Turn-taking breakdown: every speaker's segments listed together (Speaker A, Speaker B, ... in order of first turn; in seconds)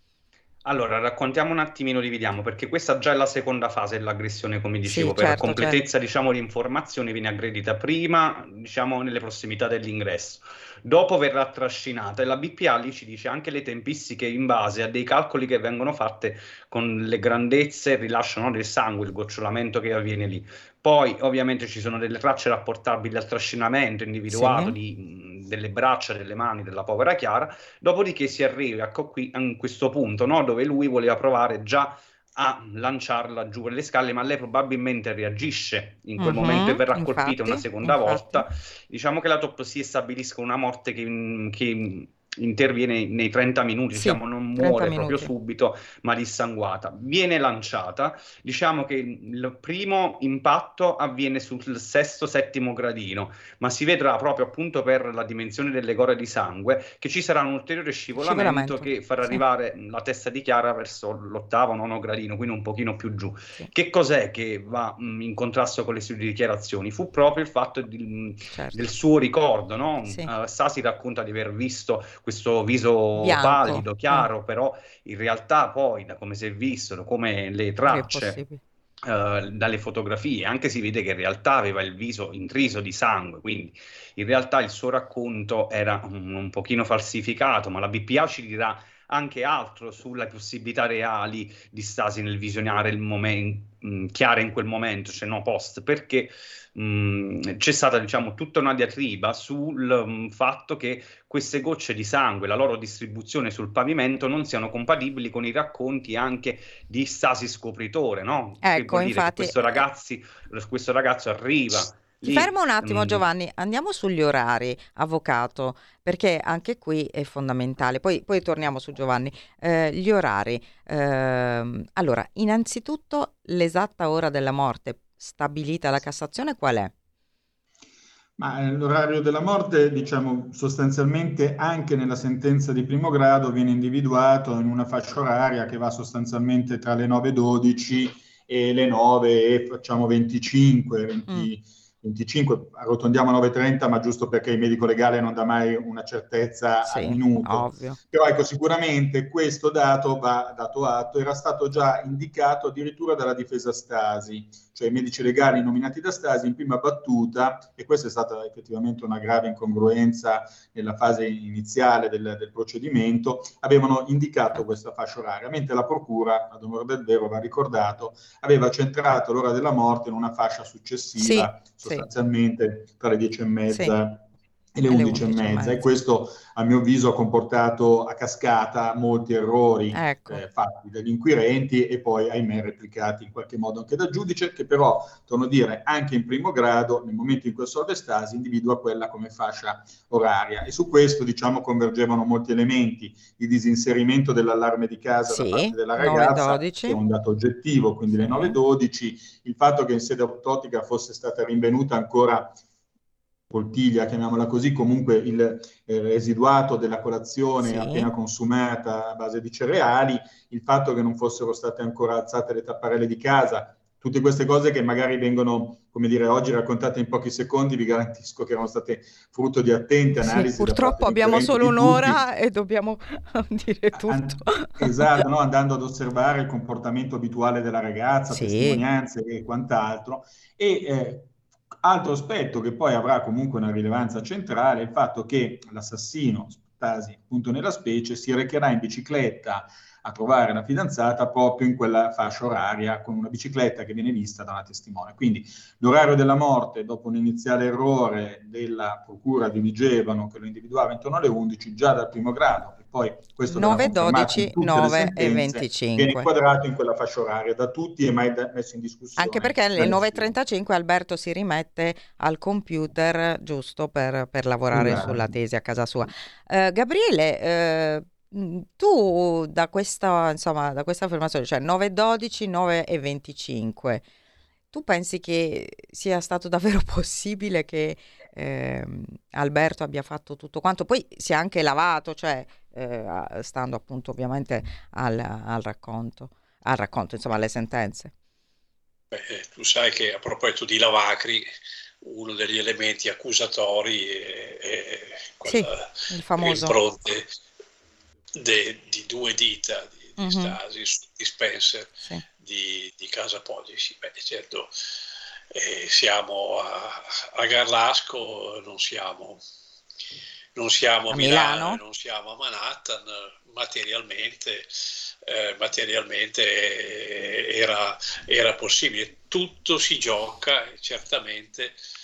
Speaker A: 0.7-78.4, 79.0-113.2
Speaker B: 4.8-5.8, 24.3-24.8, 36.2-38.4, 43.9-45.3, 58.1-59.4, 68.5-68.8, 70.0-70.3, 73.2-74.3, 77.8-78.6, 108.6-109.8, 112.2-126.9, 146.8-148.0, 171.2-172.1, 173.7-173.9, 174.9-175.9, 179.9-180.4, 195.3-197.0, 198.1-198.5, 207.6-208.1, 220.2-225.2, 228.3-228.8, 253.5-256.3, 259.2-274.0, 274.7-288.1, 295.4-296.8, 300.2-300.6, 311.1-311.8
Speaker C: 128.4-202.6, 203.5-222.2, 223.9-260.3, 264.7-265.3
Speaker D: 289.1-291.5, 292.0-297.3, 298.4-301.9, 302.4-304.7, 305.5-309.4, 310.5-321.8